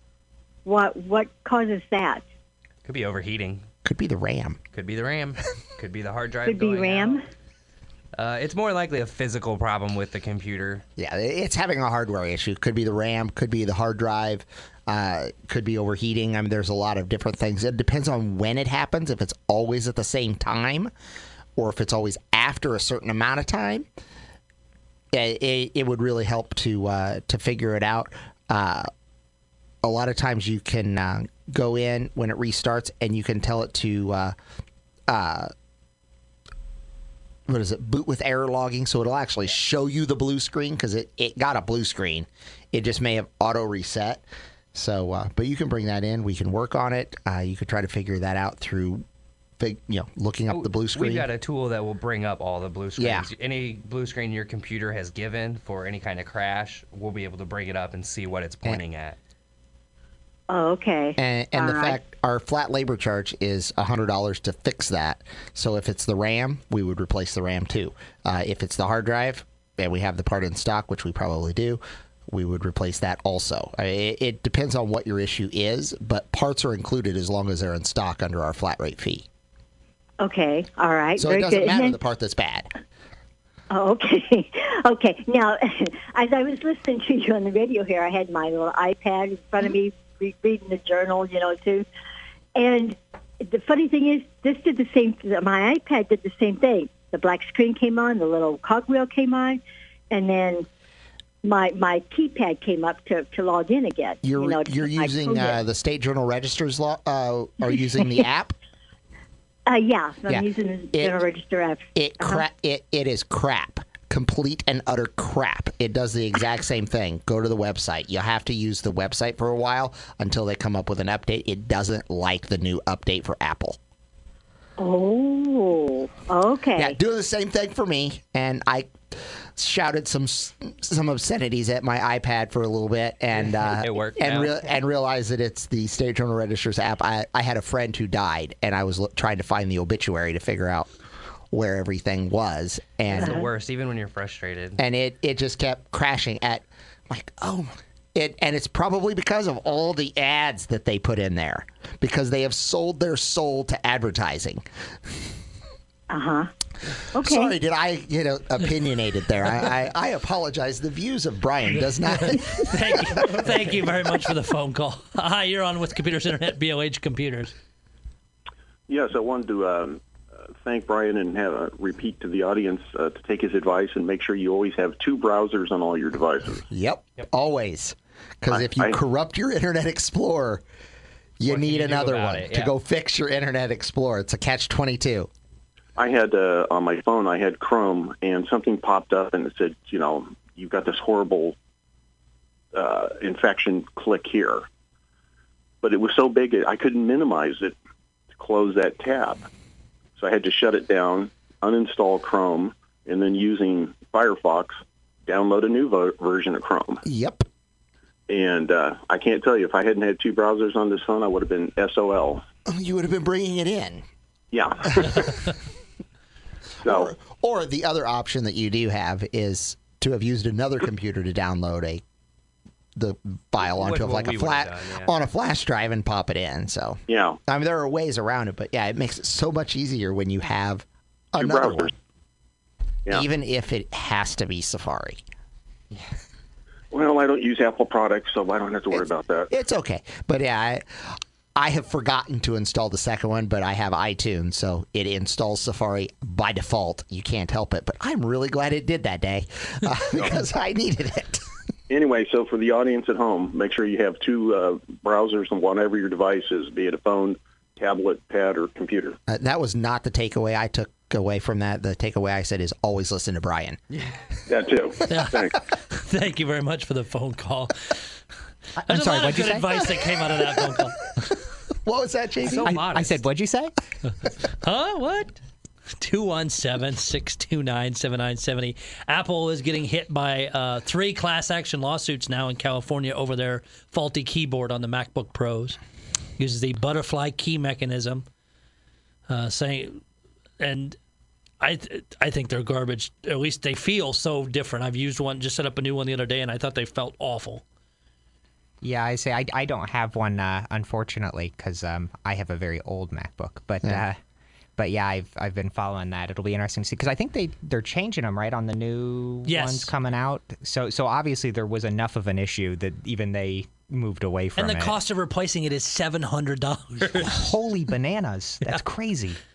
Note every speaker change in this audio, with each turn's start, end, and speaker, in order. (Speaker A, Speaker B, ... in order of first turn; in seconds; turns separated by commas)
Speaker A: 0.6-2.2, Speaker B: 2.8-3.6, Speaker C: 3.8-4.6, Speaker B: 4.7-7.2, Speaker A: 6.4-7.2, Speaker B: 8.1-10.8, Speaker C: 11.0-20.9, Speaker C: 21.6-23.9, Speaker C: 25.1-28.9, Speaker C: 29.8-34.3, Speaker C: 35.1-35.5, Speaker C: 37.5-44.2, Speaker C: 44.7-49.0, Speaker C: 49.6-51.3, Speaker B: 50.5-59.2, Speaker C: 53.0-53.3, Speaker A: 60.5-62.0, Speaker C: 61.2-79.2, Speaker A: 80.2-82.0, Speaker C: 81.2-82.7, Speaker A: 83.7-91.8, Speaker A: 92.5-100.7, Speaker A: 101.4-105.6, Speaker C: 104.2-108.5, Speaker A: 109.7-112.4, Speaker C: 110.3-111.2, Speaker C: 111.9-123.8, Speaker A: 124.8-127.0, Speaker C: 126.8-140.9, Speaker B: 133.4-134.7, Speaker C: 141.5-143.4, Speaker B: 143.1-144.8, Speaker A: 143.2-143.4, Speaker C: 144.8-154.6, Speaker A: 156.1-156.5, Speaker A: 157.1-157.6, Speaker C: 157.2-163.5, Speaker D: 162.1-167.5, Speaker E: 168.9-176.6, Speaker C: 176.7-180.6, Speaker E: 178.5-179.0, Speaker C: 181.4-185.3, Speaker B: 181.4-182.7, Speaker E: 185.9-191.6, Speaker E: 192.7-194.7, Speaker E: 195.8-197.8, Speaker E: 198.3-199.5, Speaker E: 200.2-207.0, Speaker C: 207.0-207.4, Speaker E: 208.3-212.4, Speaker C: 212.7-214.0, Speaker E: 214.5-215.5, Speaker C: 214.9-215.3, Speaker C: 216.8-222.0, Speaker E: 216.8-217.1, Speaker C: 222.9-231.9, Speaker B: 223.6-225.1, Speaker E: 227.1-227.4, Speaker E: 231.4-231.9, Speaker C: 233.1-235.2, Speaker E: 236.9-239.5, Speaker C: 238.9-251.5, Speaker E: 251.9-259.2, Speaker C: 259.3-263.8, Speaker E: 264.5-265.5, Speaker D: 265.1-267.9, Speaker F: 268.8-269.9, Speaker D: 268.9-271.1, Speaker C: 271.8-272.8, Speaker B: 272.4-273.2, Speaker F: 272.6-273.7, Speaker D: 274.6-275.4, Speaker D: 276.0-285.8, Speaker D: 286.4-288.2, Speaker D: 289.3-290.0, Speaker D: 290.6-291.0, Speaker D: 291.6-297.6, Speaker F: 298.8-304.2, Speaker F: 304.8-315.0, Speaker D: 309.5-309.9, Speaker D: 314.6-317.4, Speaker F: 317.2-319.4